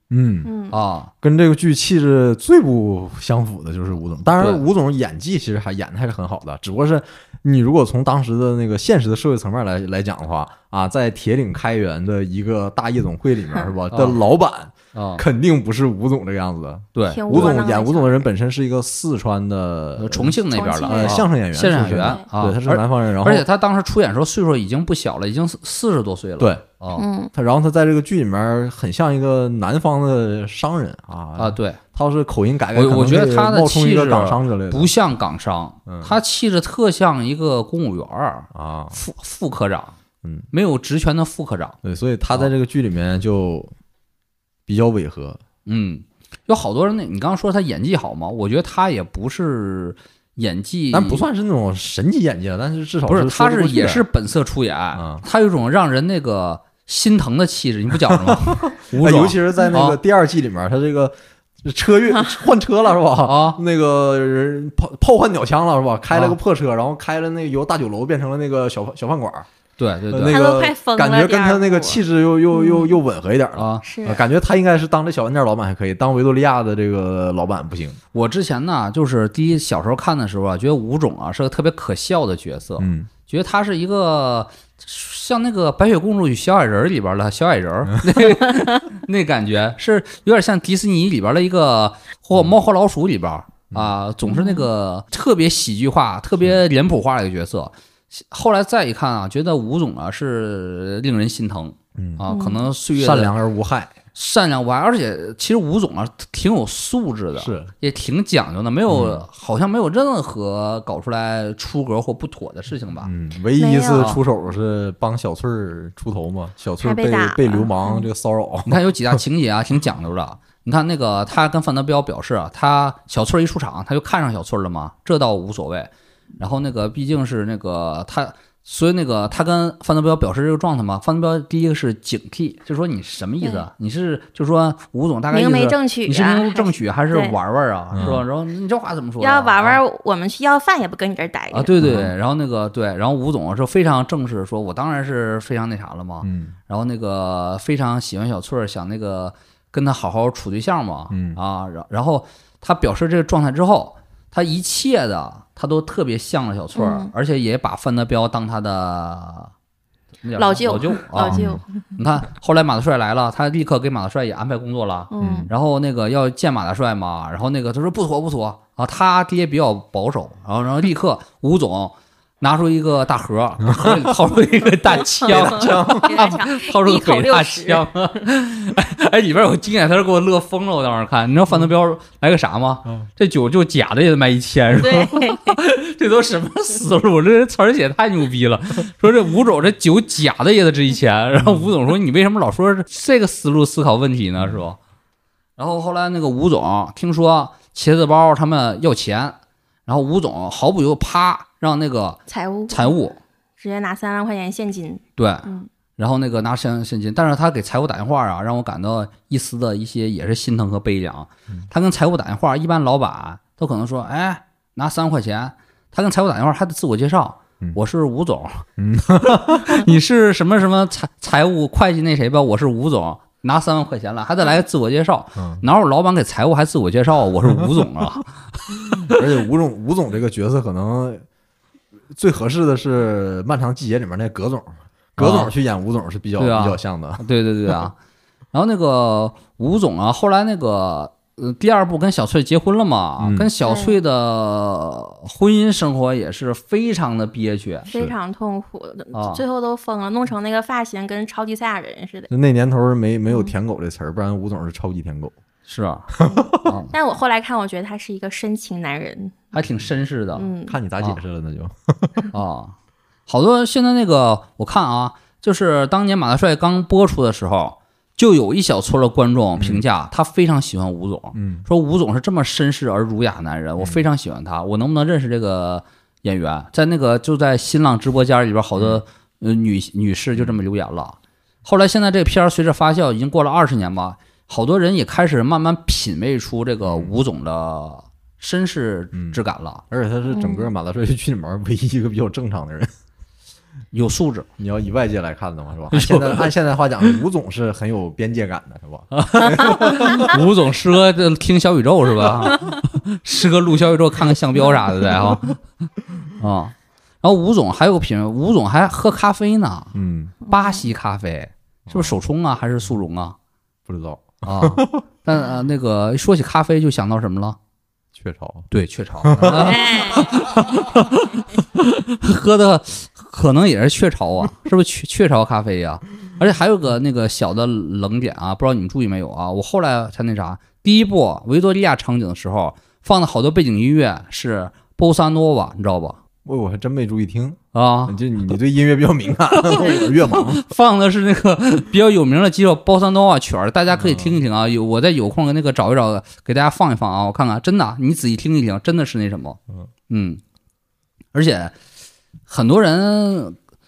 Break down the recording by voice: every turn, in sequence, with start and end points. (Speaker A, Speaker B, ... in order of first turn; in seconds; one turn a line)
Speaker A: 0.1-0.5
Speaker B: 0.4-0.8
Speaker C: 0.7-1.1
Speaker A: 1.2-20.4
Speaker C: 13.9-14.2
Speaker C: 14.9-15.2
Speaker C: 16.9-17.6
Speaker B: 17.1-18.2
Speaker C: 20.0-27.1
Speaker B: 20.5-21.3
Speaker A: 20.9-23.4
Speaker B: 21.9-22.2
Speaker B: 26.9-27.3
Speaker A: 27.3-34.9
Speaker C: 31.4-31.8
Speaker C: 32.7-40.0
Speaker A: 35.9-36.2
Speaker A: 38.5-39.0
Speaker C: 40.5-41.8
Speaker A: 41.8-43.7
Speaker A: 44.7-45.4
Speaker C: 45.7-51.2
Speaker A: 50.9-54.0
Speaker C: 53.1-60.0
Speaker A: 54.9-55.2
Speaker A: 58.1-69.5
Speaker C: 63.2-63.6
Speaker C: 66.1-66.4
Speaker C: 69.8-70.4
Speaker A: 70.1-78.0
Speaker B: 70.3-73.0
Speaker C: 73.5-73.8
Speaker B: 73.8-74.2
Speaker C: 78.1-103.3
Speaker A: 82.8-83.1
Speaker B: 94.2-94.7
Speaker A: 102.0-102.2
Speaker B: 102.3-102.7
Speaker A: 103.0-103.9
Speaker C: 104.1-113.1
Speaker A: 107.4-107.7
Speaker A: 108.9-109.2
Speaker A: 113.0-118.8
Speaker B: 113.5-114.2
Speaker B: 116.8-118.1
Speaker C: 118.7-139.8
Speaker B: 133.4-133.7
Speaker B: 135.3-137.4
Speaker A: 137.9-138.2
Speaker B: 139.2-142.1
Speaker C: 141.5-159.5
Speaker A: 141.8-142.1
Speaker A: 146.2-146.6
Speaker A: 151.1-151.4
Speaker B: 156.7-157.1
Speaker C: 160.2-161.4
Speaker B: 160.4-161.6
Speaker A: 161.2-161.6
Speaker C: 161.9-194.8
Speaker B: 165.1-165.5
Speaker A: 165.2-165.5
Speaker B: 175.2-177.9
Speaker A: 175.3-176.2
Speaker B: 184.7-185.6
Speaker C: 195.6-199.4
Speaker C: 199.9-203.2
Speaker B: 202.3-203.0
Speaker B: 203.6-205.7
Speaker C: 205.2-218.7
Speaker A: 218.8-219.8
Speaker C: 219.5-229.1
Speaker A: 225.4-225.6
Speaker A: 229.0-231.2
Speaker A: 232.1-237.2
Speaker C: 235.2-235.5
Speaker C: 236.4-237.9
Speaker C: 238.5-247.9
Speaker A: 243.2-243.5
Speaker B: 243.6-244.0
Speaker B: 247.9-252.3
Speaker C: 249.1-249.4
Speaker A: 252.3-255.3
Speaker C: 255.7-256.1
Speaker B: 256.2-259.4
Speaker C: 256.6-256.9
Speaker C: 259.5-260.5
Speaker B: 260.3-260.8
Speaker A: 260.7-262.2
Speaker C: 262.3-262.7
Speaker C: 263.3-289.8
Speaker A: 269.6-269.8
Speaker A: 271.3-271.7
Speaker A: 278.8-279.0
Speaker A: 286.8-287.1
Speaker A: 289.1-289.4
Speaker A: 289.9-292.9
Speaker B: 290.3-290.7
Speaker C: 293.9-294.5
Speaker A: 294.6-300.3
Speaker C: 295.9-296.5
Speaker C: 299.1-305.6
Speaker C: 306.4-309.9
Speaker A: 309.9-310.3
Speaker B: 310.5-310.8
Speaker C: 310.5-313.4
Speaker A: 311.9-312.2
Speaker A: 313.9-315.0
Speaker C: 314.4-317.6
Speaker A: 318.1-318.7
Speaker C: 318.7-336.2
Speaker A: 319.2-319.8
Speaker B: 319.5-320.4
Speaker A: 336.4-340.6
Speaker C: 337.7-338.2
Speaker C: 339.6-350.4
Speaker A: 343.9-344.4
Speaker C: 351.3-351.7
Speaker C: 352.5-353.6